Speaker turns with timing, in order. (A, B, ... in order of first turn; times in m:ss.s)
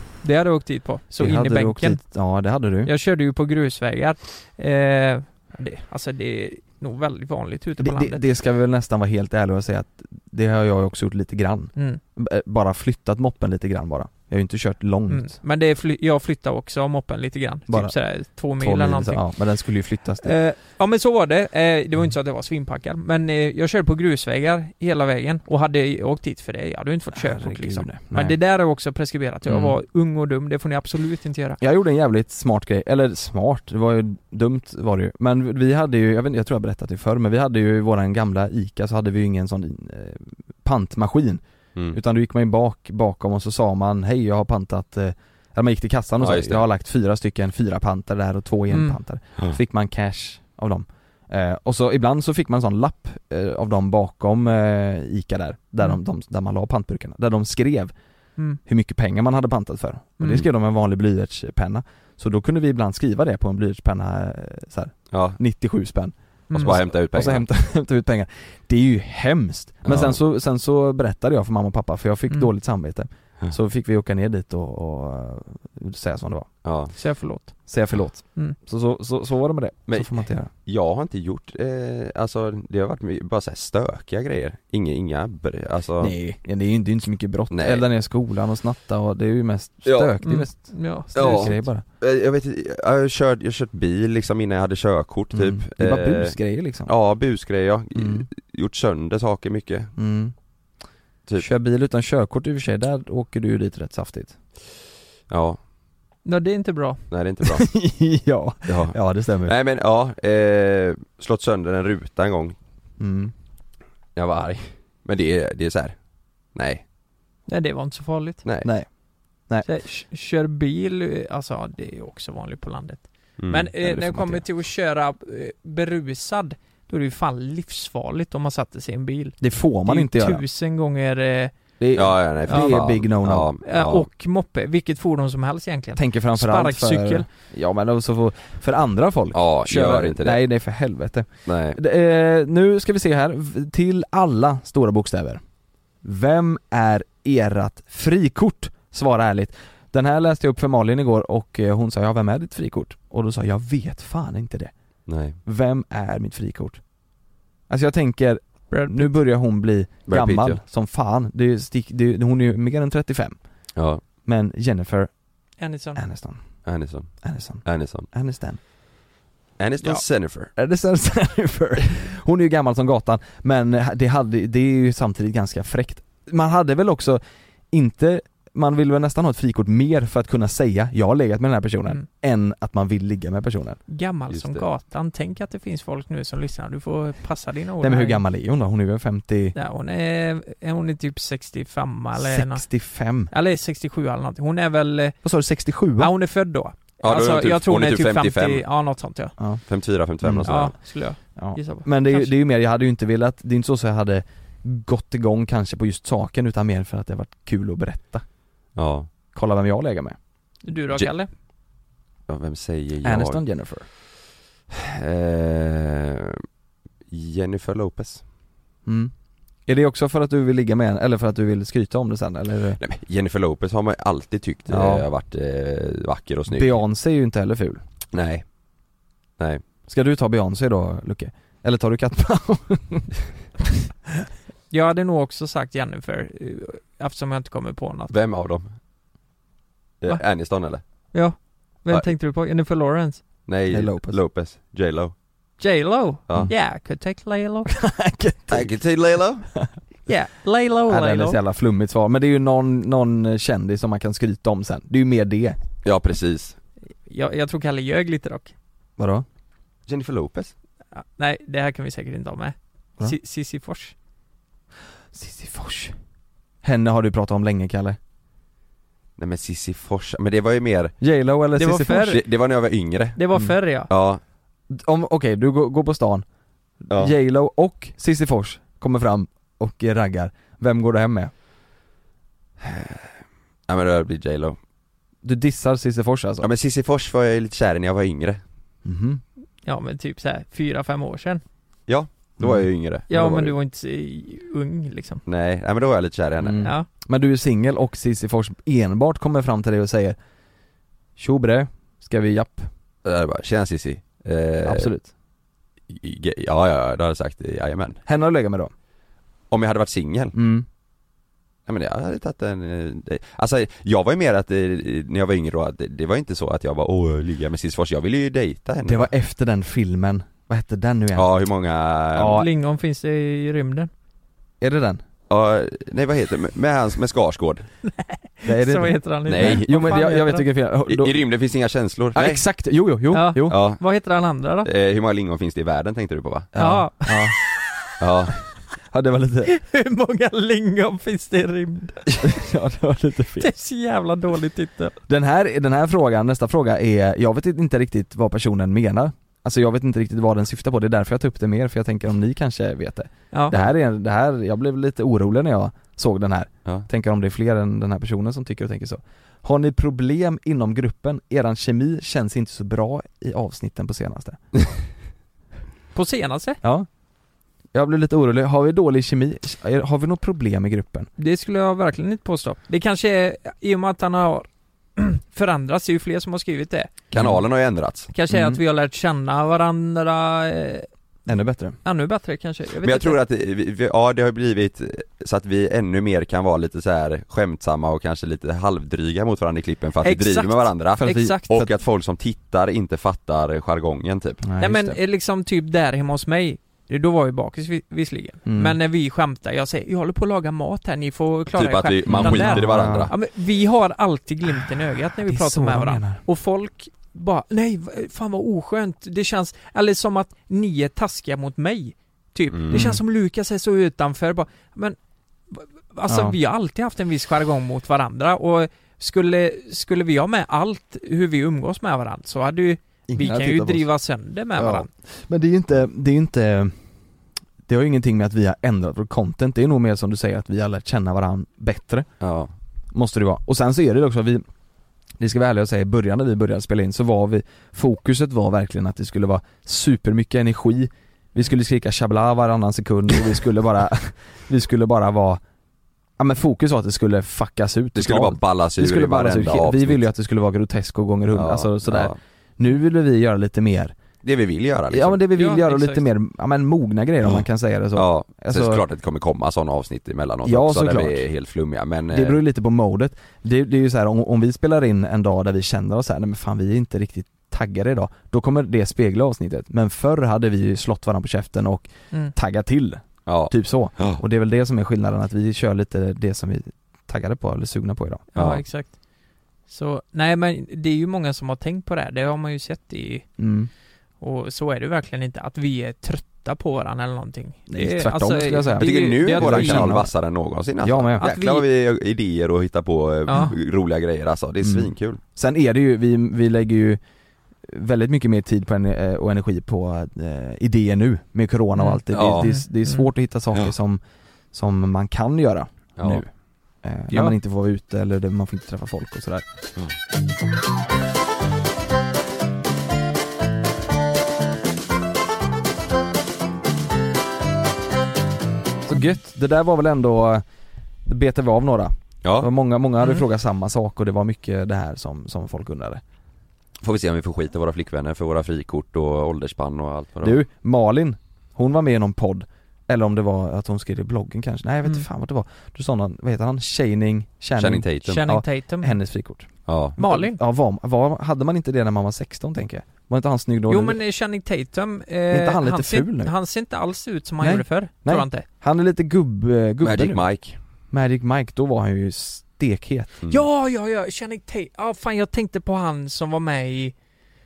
0:00.2-0:02.0 A
0:01.2-0:02.9 B
0:02.8-0:08.2 A
0:07.8-0:15.4 B
0:15.1-0:19.2 A
0:17.7-0:20.4 B
0:20.2-0:31.6 A
0:27.1-0:28.4 B
0:29.5-0:29.8 B
0:31.6-0:57.9 B
0:46.2-0:46.6 C
0:48.7-0:49.0 A
0:58.6-1:16.5 B
1:05.1-1:05.4 C
1:06.5-1:06.8 A
1:06.6-1:07.5 C
1:09.8-1:10.2 C
1:16.6-1:16.9 C
1:17.0-1:17.6 A
1:17.7-1:20.5 B
1:19.9-1:26.1 C
1:26.0-1:31.8 B
1:27.5-1:27.8 C
1:29.8-1:30.1 C
1:30.2-1:31.6 A
1:31.1-1:39.9 C
1:35.3-1:36.9 B
1:38.0-1:38.3 B
1:40.0-1:40.3 B
1:41.4-1:44.4 B
1:45.3-1:45.6 C
1:46.2-1:47.0 A
1:47.1-1:47.7 C
1:47.4-1:49.5 B
1:48.7-1:52.6 C
1:53.0-1:53.3 B
1:54.2-1:56.0 C
1:56.6-1:56.8 C
1:57.5-1:58.4 A
1:58.4-1:58.7 C
1:58.6-1:58.9 B
1:59.6-2:11.5 A
2:03.4-2:03.7 C
2:03.8-2:04.4 B
2:09.4-2:10.4 B
2:11.8-2:13.5 B
2:12.0-2:14.1 C
2:12.5-2:12.8 A
2:13.6-2:17.3 A
2:16.0-2:25.4 B
2:19.3-2:20.4 C
2:21.5-2:21.8 C
2:26.0-2:34.7 B
2:35.1-2:35.4 C
2:35.4-2:36.8 B
2:37.7-2:43.4 B
2:38.7-2:39.1 A
2:40.1-2:40.6 C
2:43.8-2:44.0 C
2:44.2-2:45.1 B
2:45.6-2:46.0 A
2:46.0-2:46.4 B
2:46.6-2:48.1 C
2:47.2-2:48.6 B
2:49.6-2:50.5 C
2:50.6-3:03.8 B
3:03.9-3:08.2 A
3:04.3-3:04.7 C
3:07.8-3:09.6 B
3:09.6-3:12.6 A
3:12.2-3:13.3 B
3:13.3-3:15.2 A
3:15.2-3:16.1 B
3:16.0-3:19.4 A
3:17.0-3:18.6 C
3:19.7-3:20.8 C
3:20.2-3:28.2 B
3:20.4-3:22.3 A
3:28.8-3:29.1 C
3:29.3-3:30.2 B
3:30.6-3:31.3 A
3:32.3-3:33.4 C
3:33.0-3:33.9 B
3:34.7-3:36.4 C
3:37.1-3:38.2 C
3:38.9-3:39.1 B
3:39.7-3:42.8 B
3:42.8-3:46.8 C
3:44.7-3:45.1 B
3:46.5-3:47.8 B
3:48.1-3:48.4 C
3:49.9-3:53.1 B
3:54.7-3:58.1 A
3:58.1-3:58.8 C
4:00.0-4:00.8 C
4:01.1-4:03.2 A
4:03.5-4:05.1 C
4:03.7-4:04.2 B
4:05.6-4:07.7 A
4:07.7-4:08.7 B
4:08.5-4:09.5 C
4:10.1-4:11.4 A
4:10.9-4:15.6 B
4:15.8-4:16.6 C
4:17.1-4:18.5 A
4:19.0-4:19.3 B
4:19.9-4:20.5 C
4:20.9-4:24.0 A
4:25.1-4:26.0 B
4:26.6-4:28.0 B
4:29.2-4:31.0 C
4:31.0-4:32.2 B
4:31.6-4:32.2 A
4:32.1-4:33.2 C
4:33.2-4:33.9 A
4:33.9-4:34.2 C
4:34.7-4:36.2 B
4:36.8-4:41.3 B
4:42.6-4:43.1 C
4:43.7-4:44.6 C
4:45.2-4:46.5 B
4:46.4-4:48.4 C
4:48.8-4:49.2 B
4:49.6-4:51.4 A
4:51.9-4:53.6 C
4:52.4-4:52.7 B
4:53.1-4:55.2 A
4:55.3-4:56.7 C
4:56.4-5:00.2 B
5:01.2-5:02.7 B
5:03.0-5:04.9 C
5:04.6-5:05.1 B
5:05.9-5:08.0 C
5:08.1-5:08.7 B
5:09.5-5:10.4 C
5:10.3-5:10.7 B
5:11.7-5:19.1 C
5:18.8-5:21.3 B
5:21.2-5:22.4 C
5:22.1-5:22.5 B
5:22.2-5:23.9 A
5:24.6-5:25.0 B
5:25.3-5:27.7 C
5:27.9-5:30.5 A
5:28.4-5:31.2 B
5:29.3-5:30.1 C
5:30.9-5:32.4 C
5:32.2-5:33.6 B
5:33.1-5:34.7 A
5:33.5-5:33.8 C
5:34.6-5:36.5 C
5:36.6-5:37.4 B
5:36.6-5:37.4 A
5:38.0-5:38.3 C
5:38.9-5:39.5 B
5:39.5-5:42.1 A
5:42.2-5:43.5 B
5:43.4-5:45.0 A
5:45.1-6:04.7 B
6:05.9-6:06.6 A
6:06.6-6:06.9 B
6:07.7-6:11.1 B
6:11.2-6:16.9 A
6:17.1-6:18.1 C
6:17.1-6:17.4 B
6:18.1-6:20.9 A
6:18.3-6:18.6 B
6:21.3-6:21.8 B
6:21.8-6:23.2 A
6:22.8-6:34.4 C
6:30.0-6:31.5 A
6:31.0-6:31.7 B
6:34.4-6:35.0 B
6:34.6-6:55.0 A
6:38.5-6:38.8 B
6:41.6-6:43.1 C
6:42.1-6:43.1 B
6:45.2-6:46.2 B
6:52.5-6:52.9 C
6:52.7-6:53.0 B
6:55.5-7:04.9 A
6:56.1-6:56.4 B
7:03.1-7:03.9 B
7:04.6-7:06.8 B
7:07.6-7:12.1 B
7:12.2-7:12.5 C
7:12.9-7:14.4 B
7:15.2-7:25.4 B
7:26.2-7:34.0 B
7:28.0-7:30.0 C
7:31.3-7:32.2 C
7:34.2-7:35.2 C
7:34.9-7:38.8 B
7:35.3-7:36.0 A
7:38.0-7:42.4 C
7:40.4-7:41.3 B
7:42.1-7:58.2 B
7:53.3-7:54.2 C
7:58.3-7:59.0 A
7:58.4-7:58.6 C
7:59.7-8:03.3 A
8:03.4-8:03.7 B
8:04.2-8:10.0 A
8:07.7-8:10.1 B
8:08.8-8:15.2 C
8:10.8-8:11.2 B
8:11.2-8:11.6 A
8:13.3-8:13.6 A
8:14.6-8:17.0 B
8:17.7-8:24.0 B
8:21.8-8:23.1 A
8:22.1-8:22.5 C
8:24.5-8:26.3 B
8:26.0-8:26.2 C
8:26.8-8:29.4 B
8:38.8-8:40.4 B
8:41.0-8:46.0 B
8:42.2-8:42.5 C
8:46.8-8:50.4 C
8:50.2-9:04.0 B
8:57.6-8:58.3 C
8:58.1-8:59.0 A
8:59.7-9:00.0 C
9:00.0-9:00.4 A
9:03.7-9:08.5 A
9:05.3-9:06.3 B
9:07.4-9:10.2 B
9:09.8-9:10.6 C
9:10.9-9:13.2 B
9:13.3-9:17.0 A